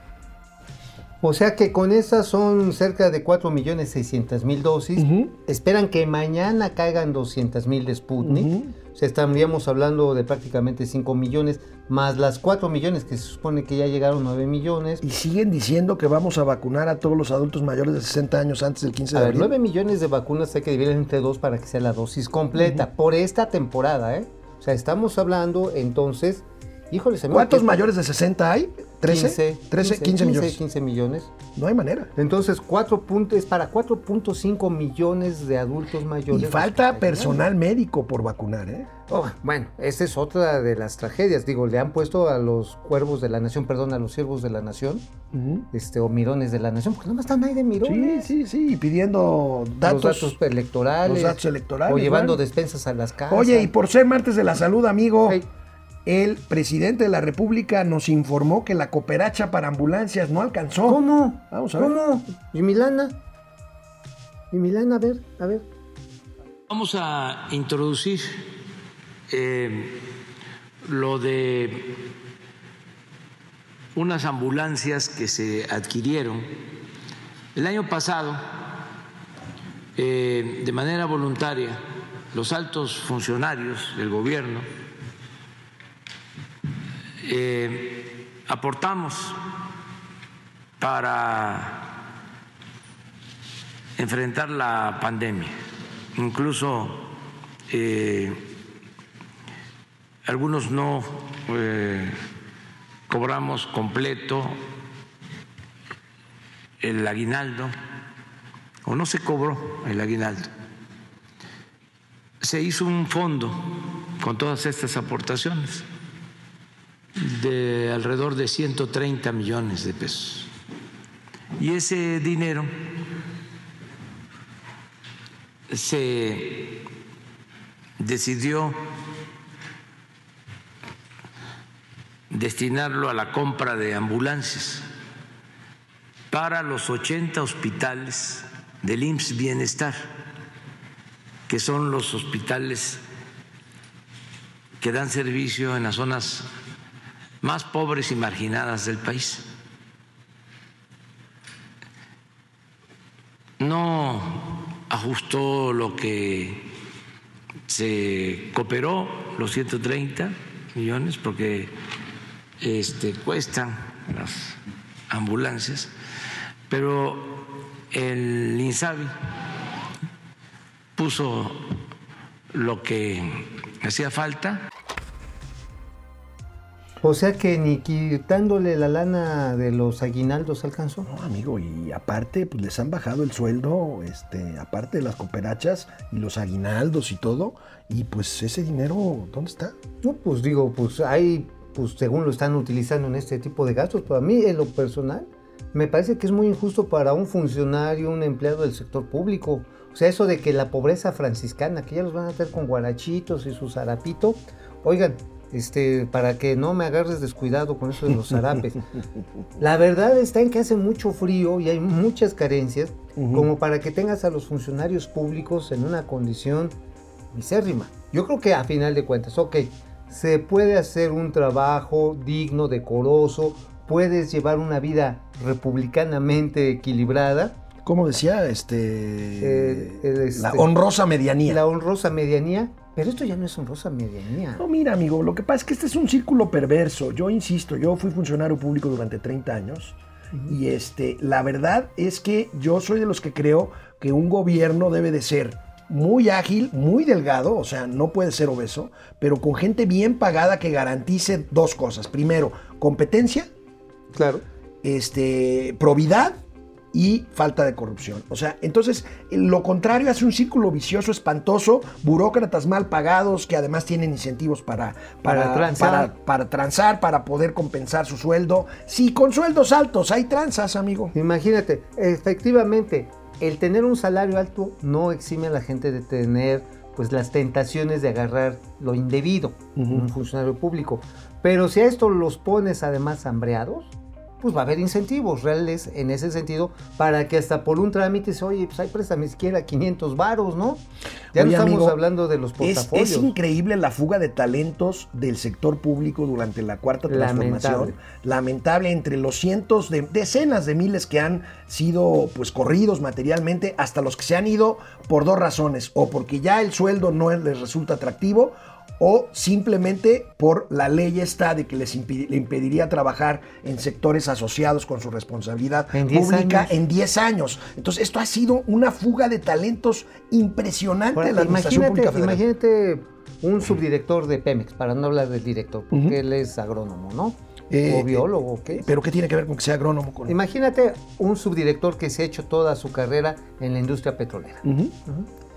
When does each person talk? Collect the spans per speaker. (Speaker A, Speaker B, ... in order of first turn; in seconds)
Speaker A: 1.2-15.0, 19.1-27.8, 29.0-31.3, 32.1-37.5, 39.1-45.0, 45.7-48.3, 49.8-53.7, 60.9-63.2, 64.5-65.6, 177.0-181.1, 190.0-208.9, 209.6-216.8, 217.3-227.6, 229.4-230.7, 231.4-234.6, 254.1-254.4, 265.2-266.1, 271.1-290.8, 291.3-293.3, 297.1-297.9, 315.9-316.7, 321.1-328.9, 330.3-335.3
Speaker B: 5.0-5.3, 8.2-8.7, 15.0-19.5, 22.6-22.9, 27.3-30.6, 31.6-32.1, 36.3-38.9, 45.3-45.6, 47.8-50.4, 51.0-52.4, 53.3-55.4, 56.0-61.9, 181.1-189.8, 213.2-213.5, 227.8-231.6, 234.6-240.0, 240.5-253.5, 254.8-256.4, 256.9-271.1, 279.8-280.1, 291.3-292.0, 292.6-322.4, 325.9-326.2, 327.7-330.3, 334.6-334.9
Speaker C: 66.7-68.5, 69.3-70.0, 70.8-72.1, 73.9-76.5, 77.5-78.4, 80.0-81.8, 82.3-84.7, 87.2-89.4, 90.8-92.0, 94.0-95.5, 96.2-97.2, 97.7-98.5, 100.2-102.2, 103.1-104.6, 106.8-107.7, 108.8-110.5, 112.4-115.8, 117.2-120.5, 121.6-122.7, 125.7-126.8, 128.0-128.8, 132.3-134.9, 136.3-140.0, 141.5-143.0, 144.8-146.5, 147.4-149.5, 153.6-156.7, 157.7-161.7, 162.6-164.6, 165.1-165.9, 166.7-169.1, 170.9-171.8, 172.5-174.7